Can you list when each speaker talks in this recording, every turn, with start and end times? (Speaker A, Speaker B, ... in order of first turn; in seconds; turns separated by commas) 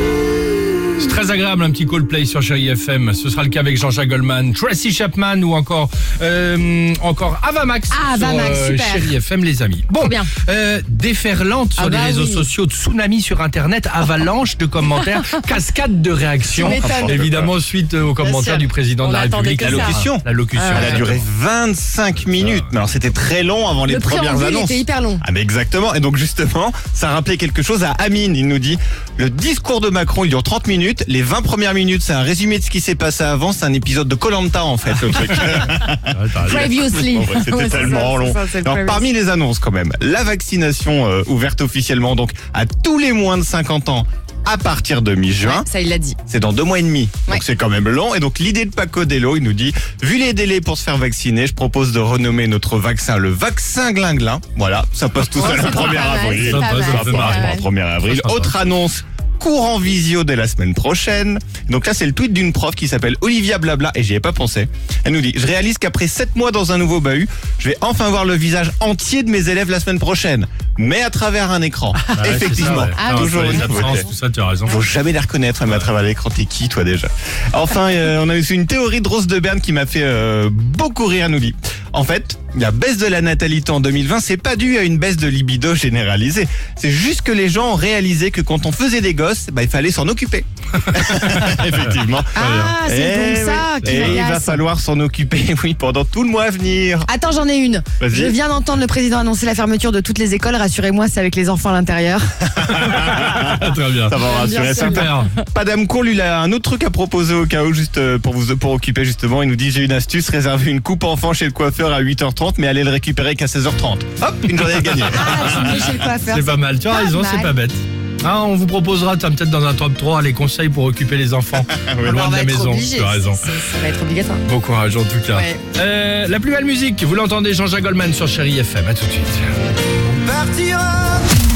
Speaker A: 0.5-1.1, Speaker B: 1.0-21.2, Speaker A: 7.9-9.1, Speaker A: 10.0-10.3, Speaker A: 11.8-12.5, Speaker A: 16.5-17.3, Speaker C: 16.6-17.5, Speaker A: 18.2-19.9, Speaker C: 19.6-45.6, Speaker A: 20.5-21.0, Speaker B: 22.2-22.7, Speaker A: 23.9-25.2, Speaker B: 36.1-36.8, Speaker A: 36.4-39.1, Speaker A: 45.4-46.2, Speaker C: 46.3-74.1, Speaker A: 55.3-57.6, Speaker B: 56.3-58.6, Speaker B: 72.1-74.8, Speaker A: 72.3-74.0, Speaker C: 74.7-97.1, Speaker B: 91.2-92.8, Speaker A: 92.3-94.6, Speaker B: 93.8-94.2, Speaker A: 97.0-102.4, Speaker C: 98.0-98.3, Speaker C: 102.5-115.9, Speaker B: 102.7-105.3, Speaker A: 104.2-105.3, Speaker A: 115.0-117.5, Speaker B: 115.4-123.4, Speaker C: 121.6-122.2, Speaker A: 122.0-124.4, Speaker B: 124.5-129.5, Speaker A: 125.3-125.6, Speaker C: 130.3-130.9, Speaker A: 130.4-131.1